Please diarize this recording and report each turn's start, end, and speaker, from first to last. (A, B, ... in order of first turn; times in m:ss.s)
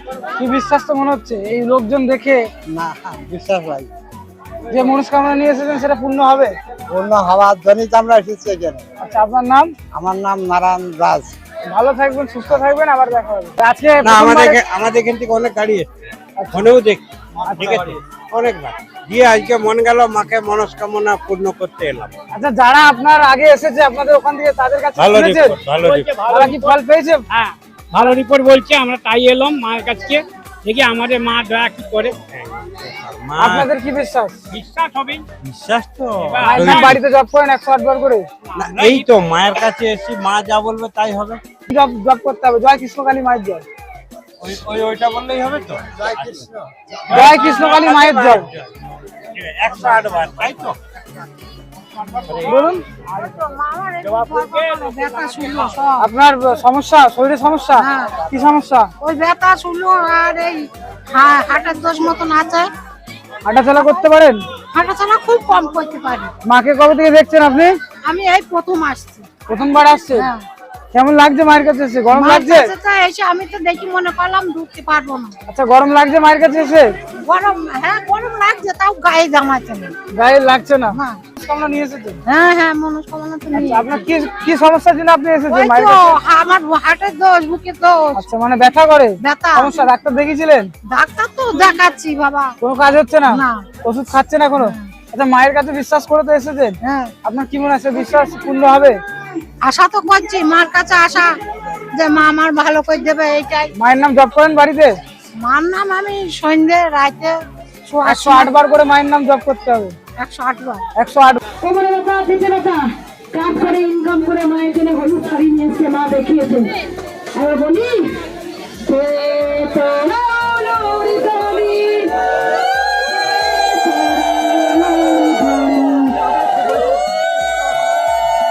0:00.4-0:02.4 A
0:02.7-0:03.9 B
0:04.7-0:06.5 A
0:06.9-0:08.8 B
0:09.0-0:09.7 A
0:09.9-0:11.3 B
0:11.7-0:14.6 A
0:14.0-0:15.9 C
0:16.4-0:16.7 A
0:16.5-0:22.1 C
0:17.5-0:17.9 A
0:22.3-0:25.6 A
0:25.0-0:26.2 C
0:25.8-0:26.7 D
0:26.3-0:27.2 A
0:27.3-0:32.3 D
0:32.3-0:33.7 C
0:33.4-0:34.4 A
0:34.5-0:35.3 D
0:35.4-0:37.0 C
0:36.3-0:37.0 D
0:36.4-0:38.3 A
0:38.5-0:39.1 D
0:38.6-0:41.4 C
0:41.7-0:43.6 A
0:44.4-0:48.7 C
0:47.1-0:48.4 A
0:49.4-0:50.8 C
0:52.3-0:52.5 C
0:52.4-0:52.8 A
0:53.2-0:56.1 E
0:54.0-0:55.5 D
0:56.0-0:58.9 A
0:57.8-0:58.2 E
0:59.0-1:02.7 E
1:03.4-1:04.4 A
1:03.8-1:04.1 E
1:04.7-1:06.3 E
1:06.4-1:07.8 A
1:08.0-1:09.3 E
1:09.5-1:10.3 A
1:10.1-1:10.4 E
1:10.9-1:12.7 A
1:12.1-1:15.4 E
1:15.5-1:16.9 A
1:17.2-1:19.9 E
1:20.1-1:22.2 A
1:20.9-1:21.2 E
1:22.2-1:24.1 E
1:23.5-1:26.1 A
1:25.5-1:28.2 E
1:28.2-1:30.7 A
1:29.2-1:29.8 E
1:30.9-1:32.6 E
1:32.6-1:39.0 A
1:33.3-1:33.7 E
1:34.6-1:34.9 E
1:36.8-1:37.1 E
1:39.6-1:41.4 E
1:41.9-1:43.7 E
1:43.8-1:45.0 A
1:45.3-1:48.5 E
1:48.0-1:50.0 A
1:50.2-1:50.9 E
1:51.0-1:51.4 A
1:51.6-1:52.8 F
1:53.3-1:56.7 F
1:57.3-1:58.2 F
1:58.8-2:02.2 F
2:03.2-2:06.2 F